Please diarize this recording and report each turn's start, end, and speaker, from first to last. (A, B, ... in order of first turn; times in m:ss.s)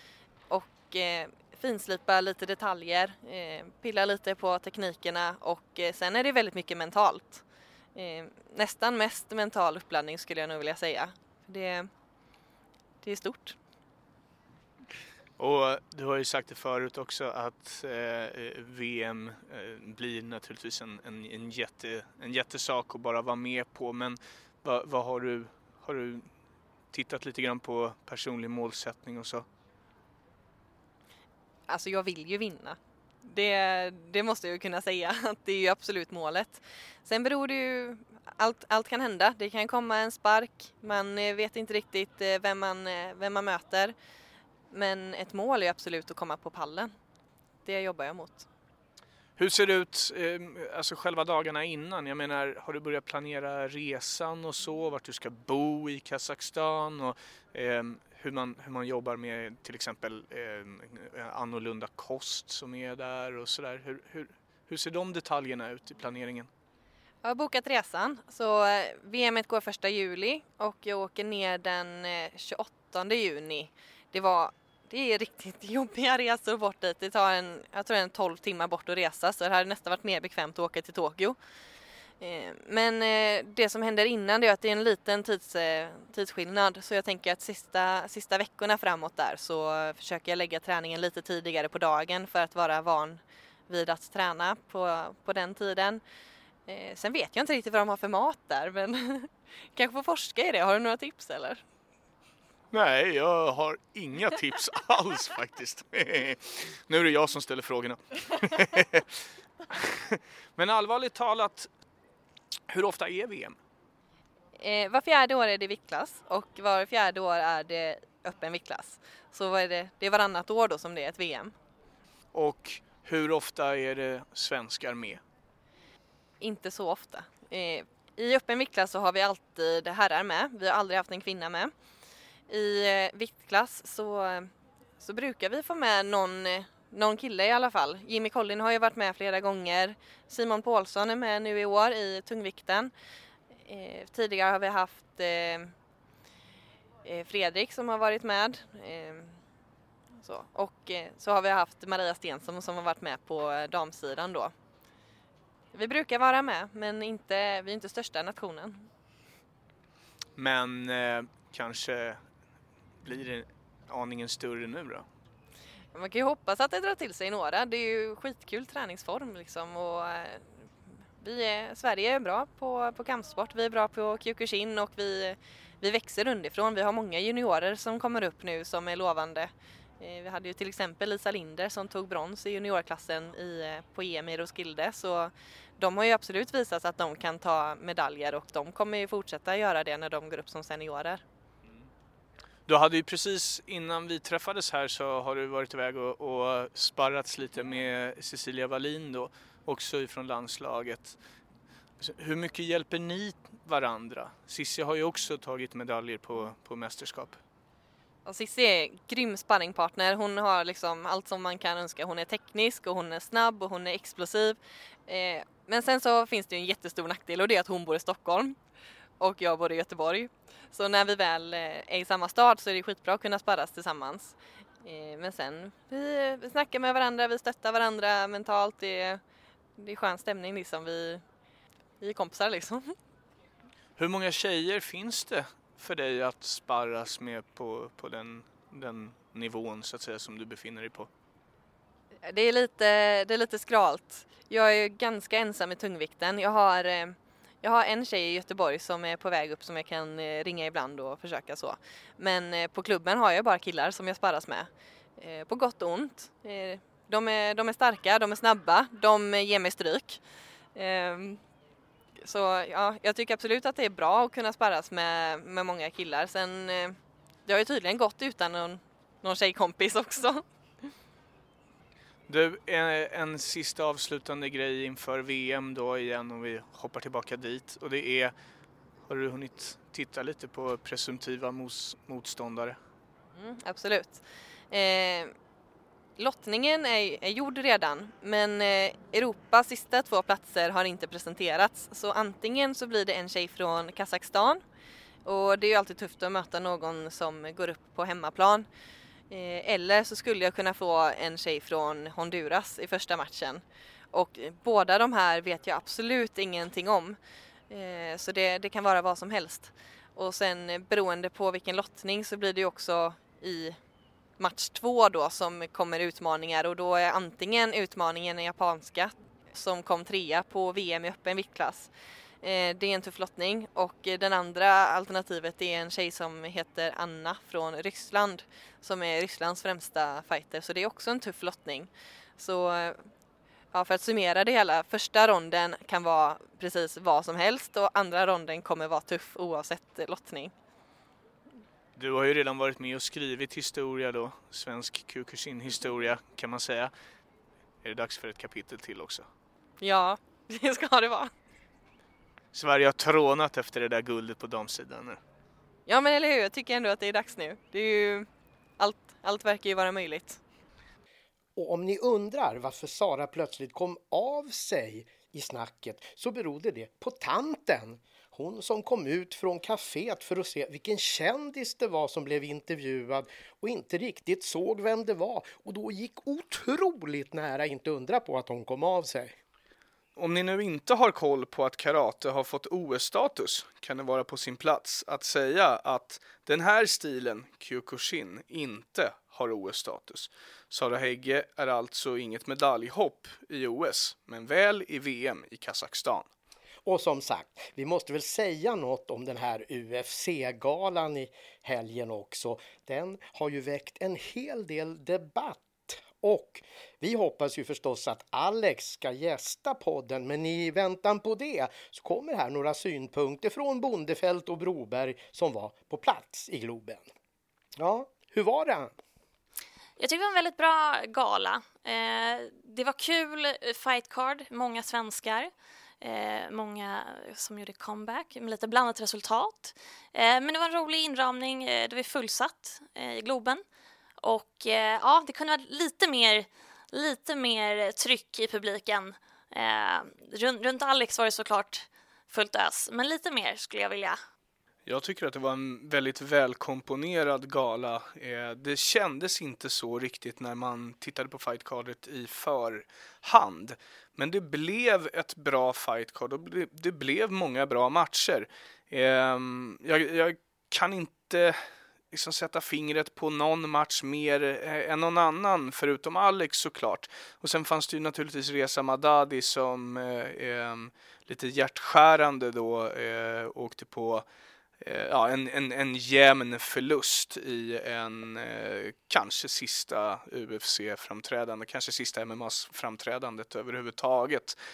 0:00.5-0:07.4 A
0:07.9-0:11.9 A
0:13.0-0:13.6 A
0:15.4-0:26.3 B
0:26.9-0:29.4 B
0:31.7-0:43.9 A
0:44.7-0:46.9 A
0:47.6-0:48.5 A
0:49.4-1:06.5 B
1:07.2-1:21.4 A
1:22.2-1:36.0 A
1:36.7-1:41.6 A
1:42.7-1:49.0 B
1:49.7-1:51.7 B
1:52.7-1:53.6 B
1:54.6-2:01.5 A
2:02.3-2:05.2 B
2:06.4-2:11.7 A
2:12.5-2:22.9 A
2:23.6-2:25.7 A
2:27.0-2:29.4 A
2:30.2-2:34.5 A
2:35.7-2:38.9 A
2:40.4-2:42.2 B
2:43.0-2:45.0 B
2:45.9-2:50.7 A
2:51.2-3:11.2 A
3:12.7-3:21.2 B
3:22.0-3:27.4 B
3:28.2-3:38.6 A
3:39.2-3:49.2 A
3:49.8-3:51.2 A
3:52.0-3:52.9 A
3:54.0-4:01.1 B
4:02.2-4:20.2 A
4:20.7-4:21.4 A
4:22.2-4:30.4 A
4:32.3-4:38.3 B
4:39.1-4:42.8 B
4:43.3-4:45.3 A
4:46.2-4:54.6 A
4:55.2-4:58.7 A
4:59.3-5:07.2 A
5:07.7-5:13.8 A
5:14.4-5:21.9 A
5:22.4-5:33.1 A
5:33.7-5:40.5 A
5:42.0-5:46.9 B
5:47.8-5:49.3 B
5:49.8-5:51.3 A
5:52.5-5:55.2 B
5:55.9-5:58.3 A
5:58.8-6:00.4 A
6:01.6-6:19.4 C
6:20.2-6:36.3 B
6:36.8-6:57.0 C
6:57.8-6:58.9 C
7:00.0-7:13.6 D
7:14.2-7:24.2 D
7:24.8-7:54.2 B
7:54.8-8:04.6 B